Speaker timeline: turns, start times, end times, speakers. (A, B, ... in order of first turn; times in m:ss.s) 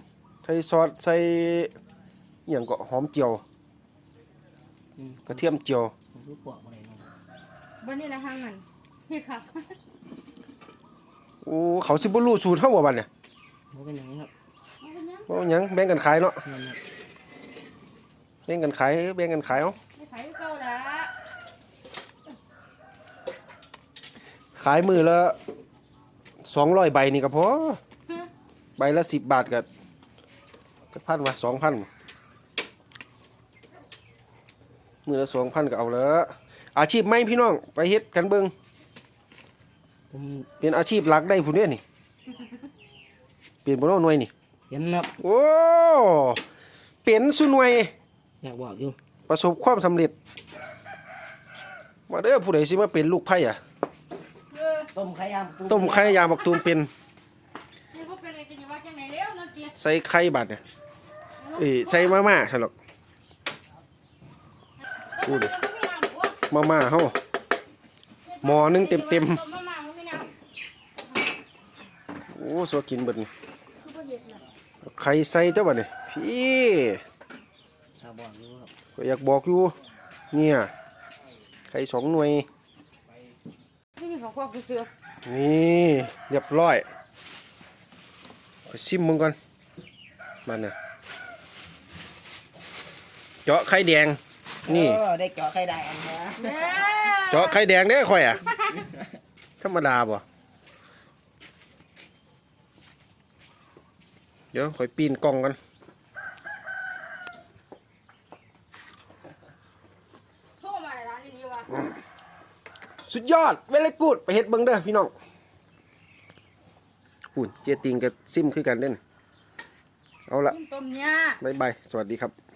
0:00.4-0:01.7 A
0:02.5-0:03.4 A
0:05.0-0:05.5 B
0:05.3-0:05.9 A
0:06.1-0:07.1 B
0:07.8-0:09.8 C
0:11.4-0:13.1 A
0:13.7-0:14.3 B
0:14.8-0:15.3 C
0:15.3-0:16.4 A
0:16.4-0:16.8 B
0:18.5-0:19.8 A
0:20.0-0:21.1 C
0:24.6-0:25.4 A
0:26.4-0:27.8 A
0:28.8-0:29.7 A
0:30.9-0:31.9 A
0:35.1-0:38.5 A
0:40.1-0:40.5 B
0:40.6-0:41.8 A
0:43.6-0:44.3 A
0:44.7-0:45.2 B
0:45.2-0:46.4 A
0:47.0-0:47.9 A
0:48.4-0:49.0 B
0:49.3-0:50.1 A
0:52.1-0:53.6 A
0:54.5-0:54.9 C
0:54.9-0:56.3 B
0:55.7-0:56.9 A
0:57.9-0:59.7 C
0:59.7-1:00.6 A
1:01.4-1:02.2 C
1:01.6-1:02.7 A
1:05.2-1:06.4 C
1:05.2-1:05.5 A
1:06.5-1:07.2 A
1:08.3-1:10.3 C
1:08.4-1:09.4 A
1:12.3-1:13.3 A
1:13.8-1:14.4 C
1:14.8-1:17.0 A
1:18.0-1:18.7 B
1:19.0-1:19.8 A
1:20.3-1:20.7 A
1:21.7-1:22.5 A
1:24.0-1:24.9 C
1:25.2-1:26.9 A
1:28.7-1:29.4 A
1:30.5-1:30.8 A
1:33.5-1:35.0 A
1:34.6-1:36.8 B
1:36.4-1:37.6 C
1:37.3-1:38.6 A
1:39.6-1:40.2 A
1:44.5-1:45.6 A
1:50.6-1:51.7 C
1:53.1-1:55.1 A
1:57.4-1:59.0 A
2:00.3-2:00.6 A
2:00.5-2:01.4 C
2:01.4-2:02.3 A